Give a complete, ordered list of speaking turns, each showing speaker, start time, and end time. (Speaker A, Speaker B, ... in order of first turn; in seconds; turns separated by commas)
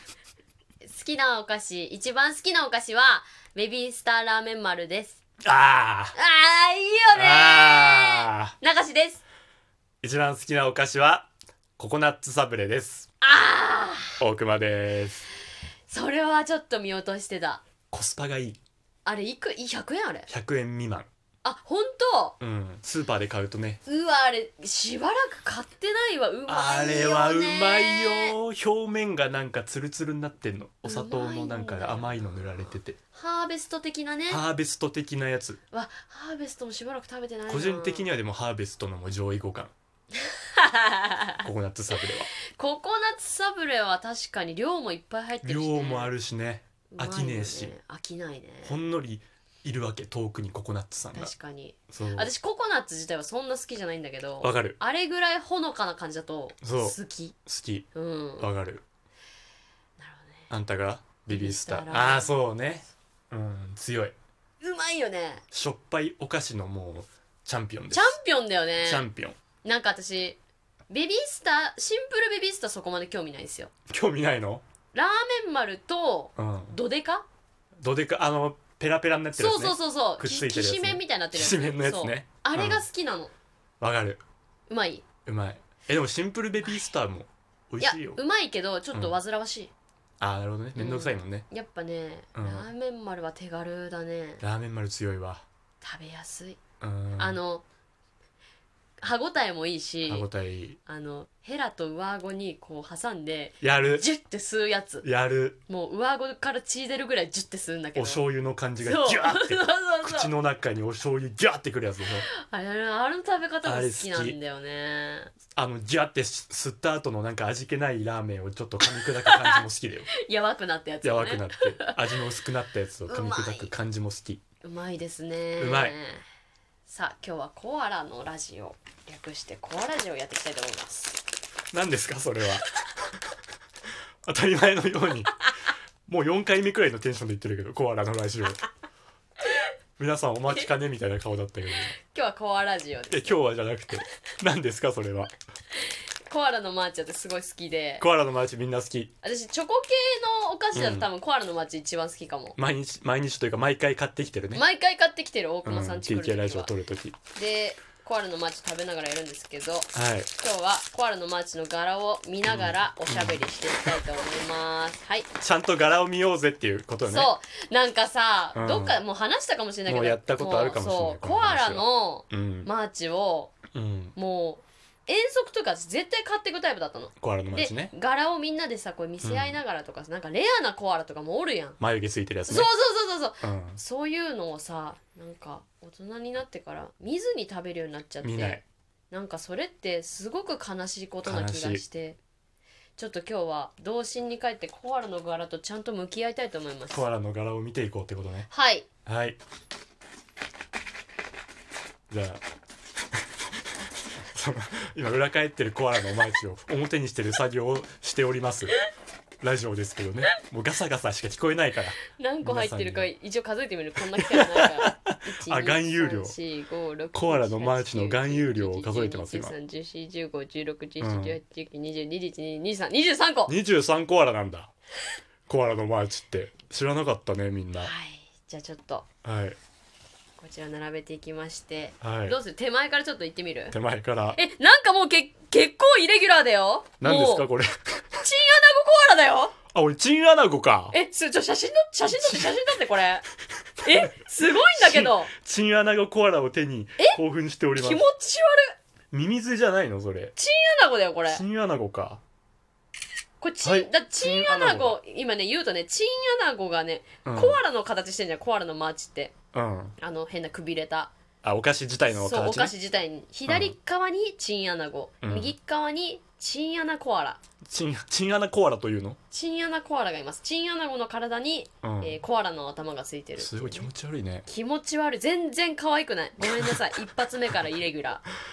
Speaker A: 0.8-5.2, Speaker B: 5.4-6.1, Speaker A: 6.1-9.2, Speaker B: 7.1-8.5, Speaker B: 10.0-13.1, Speaker A: 13.2-14.2, Speaker B: 14.2-15.2, Speaker A: 15.9-17.6, Speaker B: 17.9-18.6, Speaker A: 19.0-20.3, Speaker B: 20.3-21.1, Speaker A: 21.4-22.4, Speaker B: 22.4-23.8, Speaker A: 23.9-28.4, Speaker B: 26.5-33.0, Speaker A: 30.8-34.4, Speaker B: 34.3-35.6, Speaker A: 35.7-38.1, Speaker B: 37.5-39.7, Speaker A: 40.3-41.4, Speaker B: 41.4-42.3, Speaker A: 42.5-46.1, Speaker B: 45.4-47.7, Speaker A: 46.9-48.8, Speaker B: 48.6-51.3, Speaker A: 51.1-57.4, Speaker B: 51.9-52.3, Speaker B: 54.4-54.8, Speaker B: 56.6-57.9, Speaker A: 57.9-58.5, Speaker B: 58.4-58.8, Speaker A: 60.0-60.5, Speaker B: 60.5-64.1, Speaker A: 61.3-62.4, Speaker A: 64.6-65.4, Speaker B: 65.5-68.2, Speaker A: 67.9-69.0, Speaker B: 68.8-69.4, Speaker A: 69.6-73.7, Speaker B: 73.9-74.6, Speaker A: 74.9-77.2, Speaker B: 76.4-76.8, Speaker B: 77.8-82.9, Speaker A: 79.3-83.3, Speaker B: 83.8-84.2, Speaker A: 84.7-85.0, Speaker B: 85.2-88.2, Speaker A: 86.6-86.9, Speaker A: 87.8-89.7, Speaker B: 90.2-91.5, Speaker A: 90.8-94.4, Speaker B: 92.3-92.7, Speaker B: 94.4-95.5, Speaker A: 95.8-96.6, Speaker B: 96.8-97.4, Speaker A: 97.2-97.6, Speaker A: 99.0-100.3, Speaker B: 100.1-100.8, Speaker A: 100.8-105.0, Speaker B: 103.6-104.0, Speaker B: 105.0-105.6, Speaker A: 105.7-108.2, Speaker B: 108.0-112.3, Speaker A: 108.8-110.3, Speaker A: 112.4-115.3, Speaker B: 113.6-114.4, Speaker B: 115.5-120.1, Speaker A: 118.9-119.6, Speaker A: 120.1-122.2, Speaker B: 121.0-124.4, Speaker A: 123.1-123.7, Speaker A: 124.6-126.2, Speaker B: 125.6-126.0, Speaker A: 126.9-131.2, Speaker B: 131.7-132.8, Speaker B: 134.2-135.3, Speaker B: 136.1-138.6, Speaker B: 140.0-141.9, Speaker A: 141.9-143.4, Speaker B: 143.1-145.3, Speaker A: 146.3-148.0, Speaker B: 148.0-149.1, Speaker A: 149.2-152.6, Speaker B: 150.7-151.1, Speaker B: 152.6-154.6, Speaker A: 154.5-156.7, Speaker B: 155.6-157.2, Speaker A: 157.3-165.3, Speaker B: 159.9-160.3, Speaker B: 162.4-163.4, Speaker B: 165.4-167.3, Speaker A: 167.1-173.5, Speaker B: 168.5-169.0, Speaker B: 169.8-172.7, Speaker B: 173.7-174.1, Speaker A: 174.1-181.8, Speaker B: 177.2-177.9, Speaker B: 179.2-179.6, Speaker B: 181.8-182.7, Speaker A: 182.5-192.2, Speaker B: 183.4-183.8, Speaker B: 188.2-188.6, Speaker B: 191.2-191.8, Speaker A: 193.0-197.1, Speaker B: 196.9-198.5, Speaker A: 198.5-198.9, Speaker B: 199.1-199.4, Speaker B: 202.1-202.4, Speaker B: 204.3-208.8, Speaker B: 209.4-213.1, Speaker A: 212.1-223.5, Speaker B: 214.1-216.3, Speaker B: 217.1-219.6, Speaker B: 221.0-221.4, Speaker B: 223.5-224.7, Speaker B: 225.5-227.9, Speaker A: 227.8-229.1, Speaker B: 229.2-229.6, Speaker A: 230.4-233.8, Speaker B: 232.0-232.4, Speaker B: 233.7-234.4, Speaker A: 234.3-237.5, Speaker B: 237.0-238.1, Speaker A: 238.2-239.6, Speaker B: 239.7-240.9, Speaker A: 240.9-243.2, Speaker A: 243.8-245.3, Speaker B: 243.9-248.1, Speaker A: 247.8-248.7, Speaker B: 249.1-250.3, Speaker A: 250.3-251.4, Speaker B: 251.2-252.2, Speaker A: 253.4-259.3, Speaker B: 253.6-255.0, Speaker B: 257.2-257.6, Speaker B: 259.5-259.9, Speaker A: 260.0-261.1, Speaker B: 261.4-262.7, Speaker A: 262.1-267.4, Speaker B: 263.5-263.7, Speaker B: 265.2-265.5, Speaker B: 267.6-269.2, Speaker A: 269.3-273.9, Speaker B: 271.8-272.2, Speaker B: 273.4-274.4, Speaker A: 274.4-278.2